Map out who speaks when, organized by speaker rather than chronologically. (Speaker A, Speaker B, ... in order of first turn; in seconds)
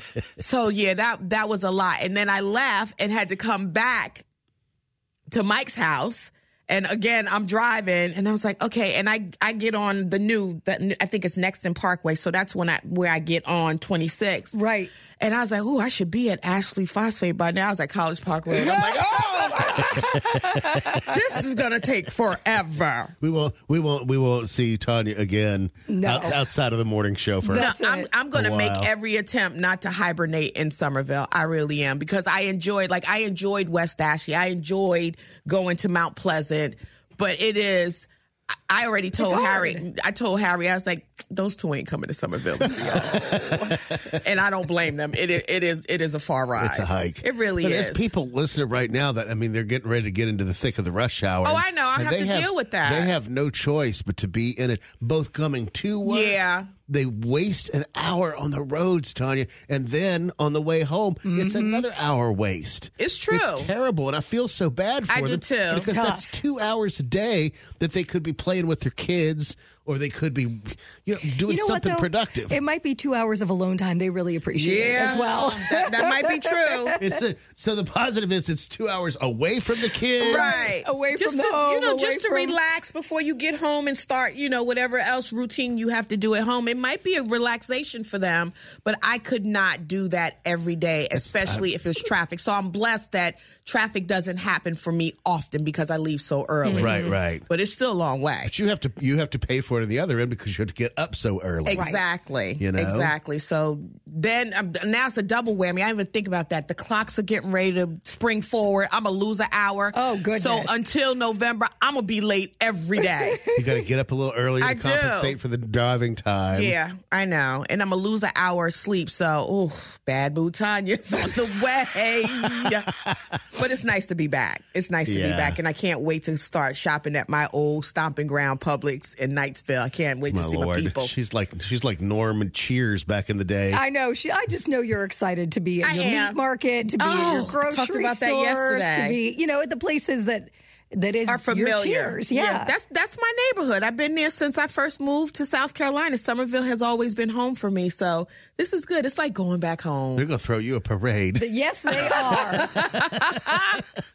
Speaker A: 0.4-4.2, 5.3-14.6, 15.2-23.1, 27.5-38.1, 38.7-48.1, 51.4-53.1, 56.0-56.7, 63.0-63.7, 65.1-65.9, 74.5-77.0, 80.2-98.5, 101.7-113.4, 114.6-115.4, 116.5-122.9, 123.5-131.1, 135.8-136.4, 137.0-139.2, 141.3-150.2, 151.9-153.8
Speaker B: 14.5-14.9, 18.6-21.1, 25.9-26.4, 27.4-28.1, 39.2-39.8, 61.2-61.8, 65.7-66.3, 71.4-77.2, 80.2-82.6, 96.6-97.2, 101.7-102.0, 109.9-110.9, 113.0-113.6, 133.7-142.7, 151.3-152.7
Speaker C: 19.9-20.6, 23.2-27.7, 28.3-28.9, 42.6-44.0, 46.6-72.6, 77.0-80.7, 91.1-91.7, 96.7-97.5, 98.4-101.9, 102.6-103.1, 113.6-116.8, 122.9-123.4, 125.0-125.6, 130.3-133.8, 150.2-153.8